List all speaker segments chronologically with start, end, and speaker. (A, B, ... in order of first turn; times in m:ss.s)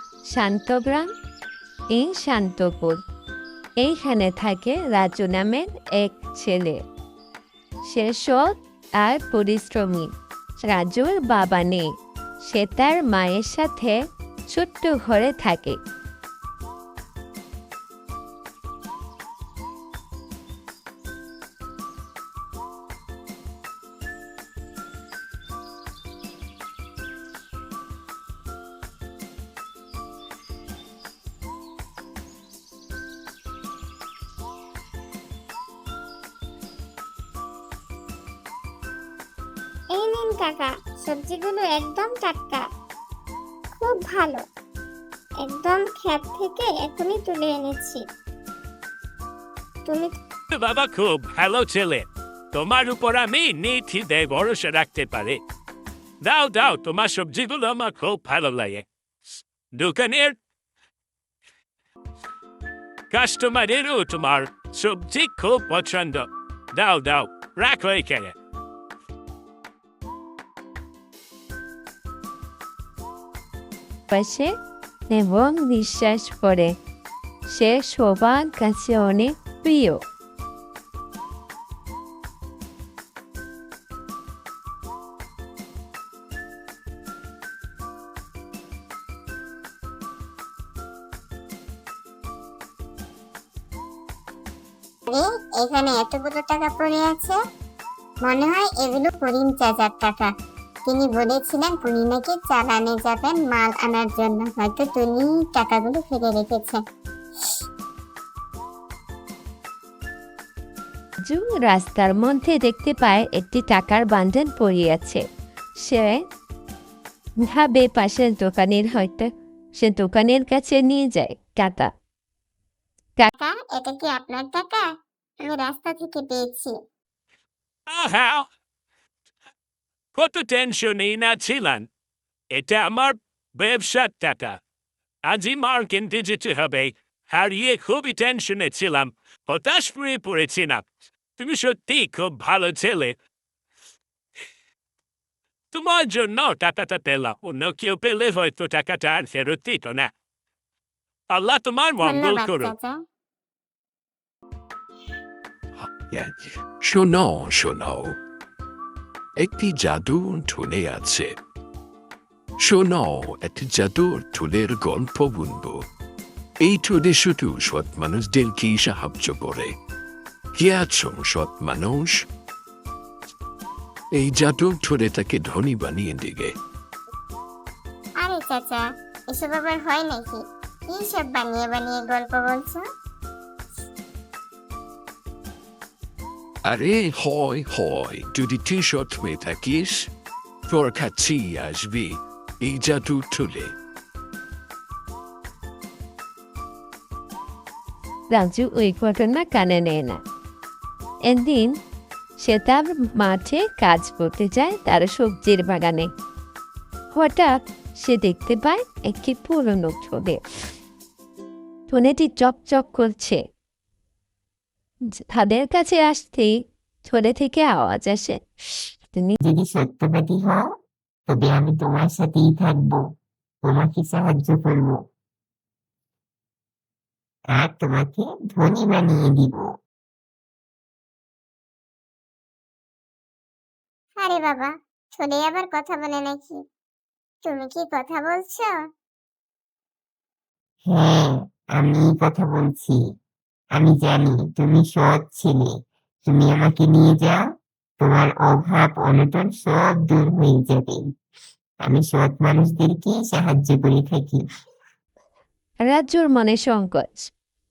0:00.3-0:01.1 A
0:01.9-0:03.0 A
0:03.8-0:06.8 A
0:07.8-0:10.1 A
0:10.6-0:11.9 A
0:12.4-0:14.0 A
0:14.5-0:15.8 A
0:39.9-0:42.6 B
0:43.8-0:44.4 B
0:45.4-0:48.1 B
0:49.9-0:50.1 B
0:50.5-0:55.4 C
0:56.2-0:58.8 C
0:59.7-1:00.4 C
1:03.1-1:08.3 C
1:14.1-1:14.5 A
1:15.1-1:16.8 A
1:17.5-1:20.0 A
1:35.1-1:37.4 B
1:38.2-1:40.3 B
1:40.8-1:46.8 B
1:51.2-1:55.2 A
1:55.8-1:56.2 A
1:57.5-2:01.9 A
2:03.4-2:04.9 B
2:05.4-2:06.8 B
2:07.9-2:08.5 C
2:10.2-2:11.9 C
2:12.5-2:14.6 C
2:15.3-2:23.2 C
2:25.7-2:30.1 C
2:31.3-2:32.7 C
2:32.0-2:32.9 B
2:35.8-2:38.2 D
2:39.4-2:41.4 D
2:42.6-2:45.8 D
2:46.6-2:49.7 D
2:50.6-2:52.1 D
2:54.2-2:56.6 D
2:58.2-3:02.8 B
3:06.6-3:10.1 D
3:10.7-3:13.7 D
3:18.3-3:20.2 A
3:21.2-3:21.8 A
3:22.4-3:26.1 A
3:27.1-3:30.4 A
3:31.9-3:33.4 A
3:35.3-3:39.4 A
3:39.4-3:40.7 E
3:41.3-3:43.0 E
3:43.6-3:45.0 E
3:47.5-3:49.7 E
3:54.2-3:56.6 B
3:57.4-3:58.7 B
4:00.8-4:03.0 E
4:03.7-4:05.7 E
4:06.2-4:07.4 E
4:08.0-4:11.1 E
4:11.8-4:14.4 E
4:15.8-4:17.3 A